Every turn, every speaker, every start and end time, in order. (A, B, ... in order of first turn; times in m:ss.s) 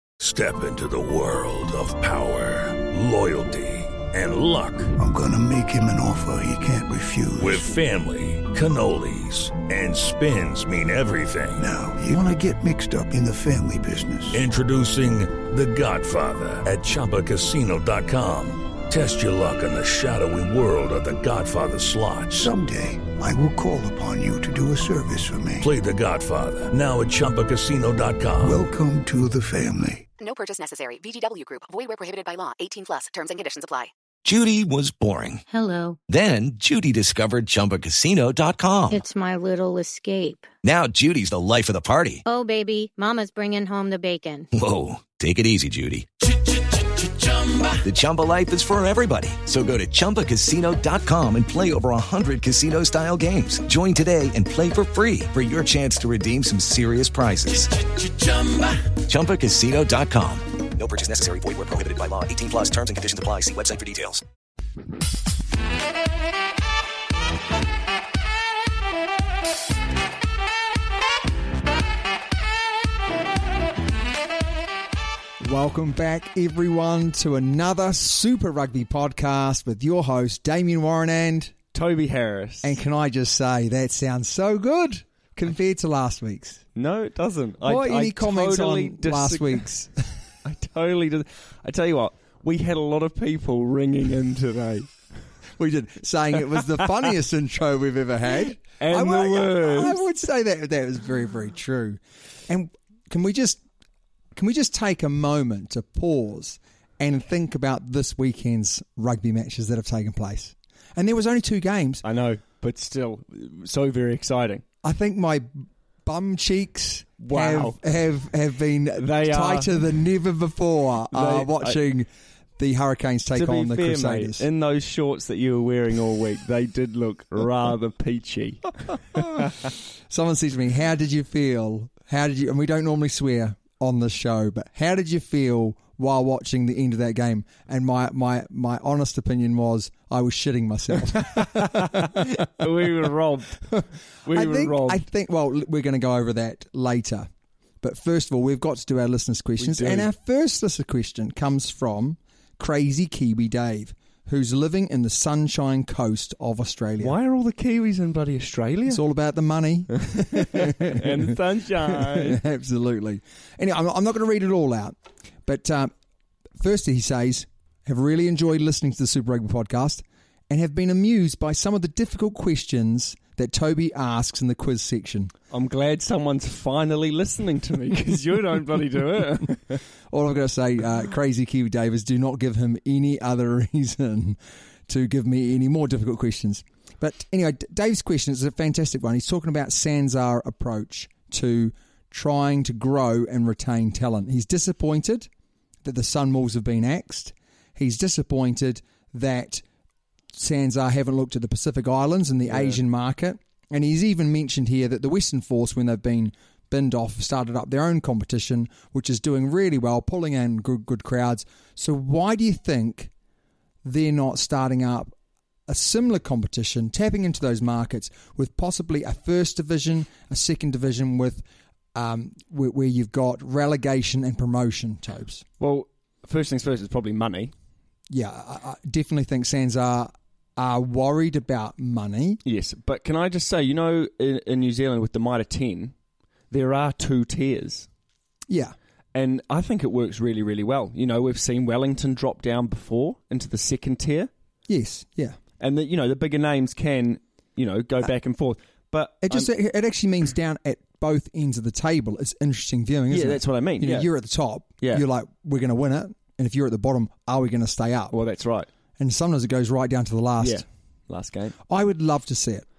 0:00.2-0:04.9 A
0:05.0-0:07.7 B
0:07.4-0:11.6 A
0:11.6-0:14.4 B
0:12.1-0:12.4 C
0:14.3-0:22.5 A
0:22.3-0:25.7 B
0:25.6-0:28.6 A
0:28.4-0:30.1 B
0:30.2-0:33.9 D
0:34.2-0:35.4 E
0:35.5-0:36.0 F
0:36.1-0:39.0 E
0:38.9-0:40.5 F
0:40.6-0:42.2 E
0:42.2-0:44.5 F
0:44.5-0:46.2 E
0:47.8-1:00.6 E
1:00.7-1:04.2 G
1:15.4-1:21.5 C
1:21.7-1:22.8 H
1:22.6-1:26.6 C
1:26.7-1:29.9 H
1:27.6-1:29.9 C
1:30.4-1:35.0 H
1:35.6-1:43.6 C
1:38.4-1:40.0 H
1:44.3-1:52.0 C
1:52.0-1:54.6 H
1:54.8-2:04.4 C
1:57.2-1:57.8 H
1:59.0-1:59.8 H
2:01.1-2:01.8 H
2:03.3-2:09.5 H
2:09.2-2:22.3 C
2:21.2-2:23.7 H
2:23.7-2:27.3 C
2:24.2-2:25.0 H
2:27.8-2:37.2 C
2:29.6-2:30.1 H
2:37.0-2:39.0 H
2:38.9-2:45.9 C
2:40.1-2:42.4 H
2:46.6-2:55.3 C
2:55.5-2:59.8 H
3:00.1-3:15.3 C
3:15.8-3:19.6 C
3:20.3-3:33.1 C
3:22.5-3:22.8 H
3:33.8-3:35.1 C
3:35.7-3:45.4 C
3:45.6-3:47.5 H
3:48.1-3:52.4 C
3:52.4-3:55.9 H
3:56.5-3:57.9 H
3:58.5-3:58.7 C
3:59.1-4:04.3 H
4:04.7-4:05.4 C
4:05.6-4:09.5 H
4:09.2-4:18.2 C
4:13.1-4:14.1 H
4:18.1-4:18.7 H
4:19.0-4:20.6 C
4:20.4-4:21.6 H
4:21.7-4:22.6 C